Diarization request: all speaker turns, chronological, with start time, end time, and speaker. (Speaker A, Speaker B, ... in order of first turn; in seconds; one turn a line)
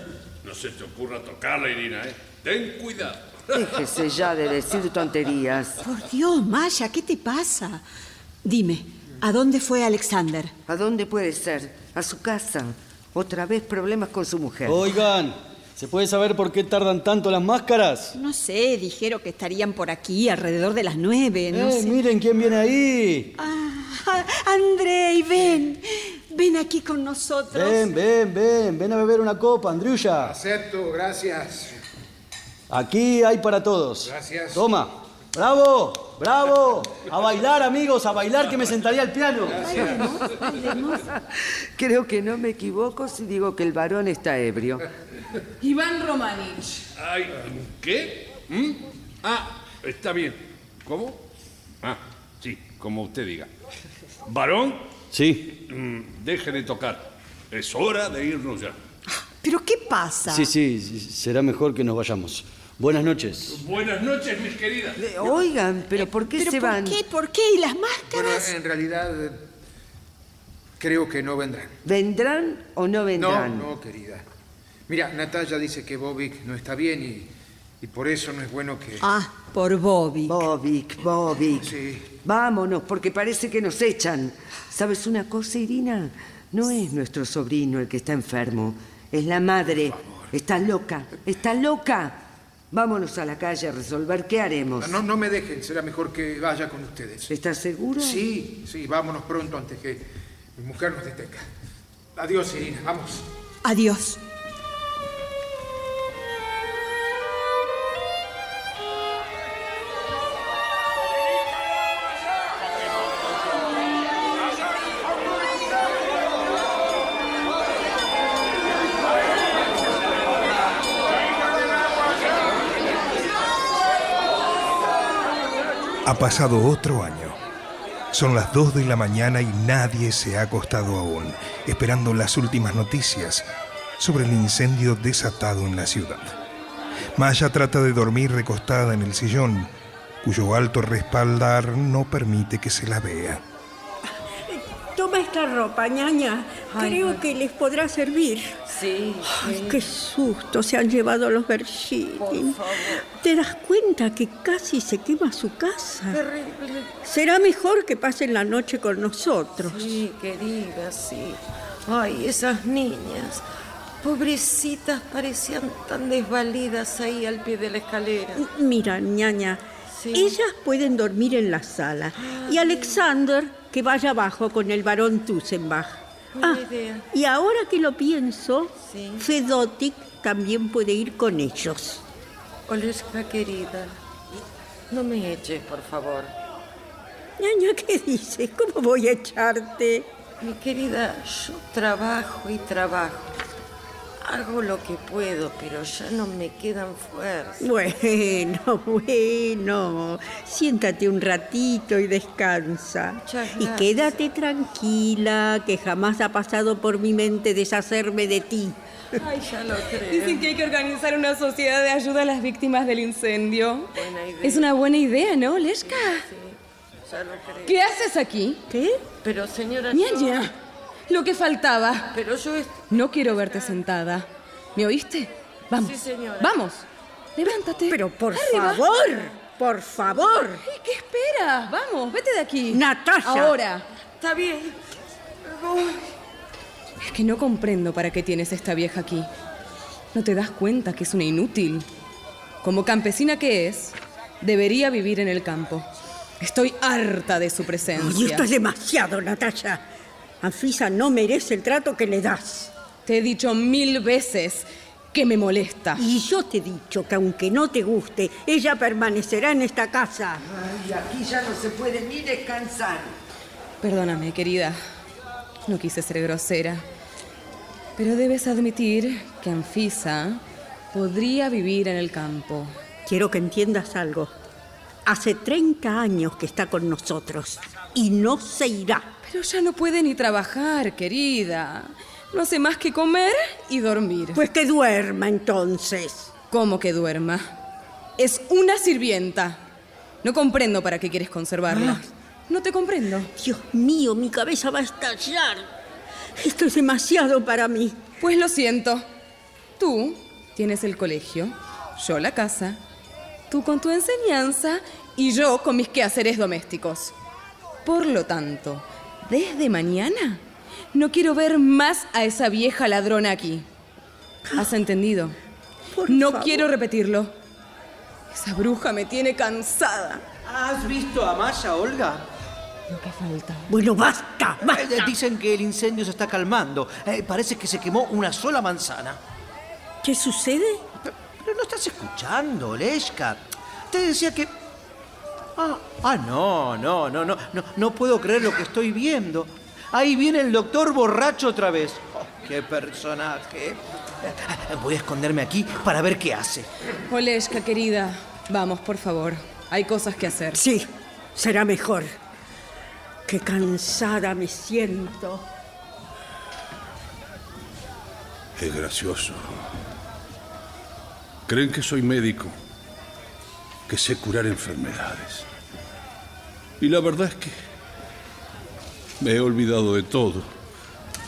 Speaker A: 0.4-3.9
Speaker B: 3.5-5.8
Speaker C: 5.8-7.8
Speaker C: 8.4-10.5
Speaker B: 10.7-14.9
Speaker D: 14.7-18.1
Speaker C: 18.1-22.0
Speaker D: 21.5-23.3
Speaker C: 23.4-27.9
Speaker D: 27.5-30.4
Speaker E: 30.2-31.8
Speaker D: 32.7-39.8
Speaker E: 34.0-34.7
Speaker C: 39.6-41.1
Speaker B: 41.8-44.9
Speaker F: 45.6-46.8
Speaker A: 47.0-51.2
Speaker A: 51.8-53.5
Speaker A: 54.2-54.8
Speaker D: 55.1-55.6
Speaker A: 55.7-58.8
Speaker C: 59.4-60.5
Speaker D: 60.3-63.6
Speaker A: 63.5-65.0
Speaker B: 65.0-67.0
Speaker C: 66.0-68.5
Speaker E: 68.1-69.4
Speaker E: 70.8-71.7
Speaker B: 71.8-73.7
Speaker E: 73.2-74.2
Speaker E: 74.9-77.3
Speaker E: 77.8-79.0
Speaker C: 79.0-80.5
Speaker B: 80.3-95.0
Speaker E: 81.6-82.1
Speaker E: 94.8-97.3
Speaker B: 97.3-98.3
Speaker E: 98.0-100.1
Speaker E: 100.6-101.5
Speaker E: 102.2-103.2
Speaker C: 103.6-104.2
Speaker G: 126.0-127.4
Speaker G: 128.1-133.4
Speaker G: 134.0-136.3
Speaker G: 137.2-139.7
Speaker G: 140.2-143.4
Speaker H: 144.5-148.6
Speaker I: 146.7-147.2
Speaker I: 148.7-149.8
Speaker H: 149.3-156.2
Speaker I: 152.2-153.0
Speaker I: 156.1-156.9
Speaker H: 157.1-160.0
Speaker I: 159.6-163.4
Speaker I: 164.0-168.4
Speaker H: 168.4-169.6
Speaker I: 169.9-170.4
Speaker H: 170.1-176.6
Speaker I: 172.2-173.0
Speaker I: 176.4-177.1
Speaker H: 177.1-182.0
Speaker I: 178.8-179.2
Speaker I: 182.7-184.0
Speaker I: 184.9-186.3
Speaker H: 187.4-190.1
Speaker I: 190.4-193.4
Speaker I: 194.2-197.7
Speaker H: 197.6-208.8
Speaker I: 203.2-204.2
Speaker I: 209.2-210.5
Speaker F: 210.0-216.3
Speaker I: 213.9-214.7
Speaker I: 215.9-216.6
Speaker I: 217.1-217.8
Speaker F: 217.7-218.8
Speaker I: 219.2-220.4
Speaker F: 219.9-220.5
Speaker F: 221.1-222.1
Speaker I: 222.1-222.8
Speaker F: 222.9-226.8
Speaker I: 225.8-226.6
Speaker F: 227.4-229.3
Speaker H: 227.9-230.6
Speaker F: 230.5-233.9
Speaker H: 232.7-233.6
Speaker I: 234.2-234.8
Speaker I: 235.5-236.0
Speaker F: 237.0-239.3
Speaker F: 240.1-241.9
Speaker F: 242.6-245.9
Speaker F: 246.4-248.5
Speaker H: 248.0-249.8
Speaker H: 250.4-252.7
Speaker F: 253.1-256.0
Speaker H: 256.0-260.4
Speaker B: 260.4-263.1
Speaker F: 263.8-264.8
Speaker F: 265.7-266.8
Speaker F: 268.0-270.4
Speaker F: 270.9-272.8
Speaker H: 273.1-274.3
Speaker H: 275.1-279.1
Speaker F: 279.2-284.4
Speaker H: 284.4-286.3
Speaker F: 286.5-287.5
Speaker F: 288.2-289.6
Speaker F: 290.2-293.3
Speaker H: 291.7-292.0
Speaker H: 293.4-295.7
Speaker H: 296.4-298.0
Speaker F: 298.2-299.1
Speaker F: 299.8-302.8
Speaker F: 303.5-307.1
Speaker F: 307.9-310.4
Speaker F: 310.9-313.6
Speaker F: 314.5-315.4
Speaker H: 315.9-316.7
Speaker F: 316.1-317.3
Speaker F: 318.3-320.2
Speaker J: 320.4-322.2
Speaker I: 323.0-323.6
Speaker H: 323.7-324.9
Speaker J: 324.6-329.2
Speaker H: 330.0-330.8
Speaker J: 331.4-334.5
Speaker J: 335.6-346.7
Speaker F: 347.1-350.6
Speaker H: 350.5-352.1
Speaker H: 353.3-355.4
Speaker A: 358.6-359.7
Speaker A: 361.5-362.6
Speaker A: 363.9-365.5
Speaker A: 366.8-367.6
Speaker A: 369.2-370.5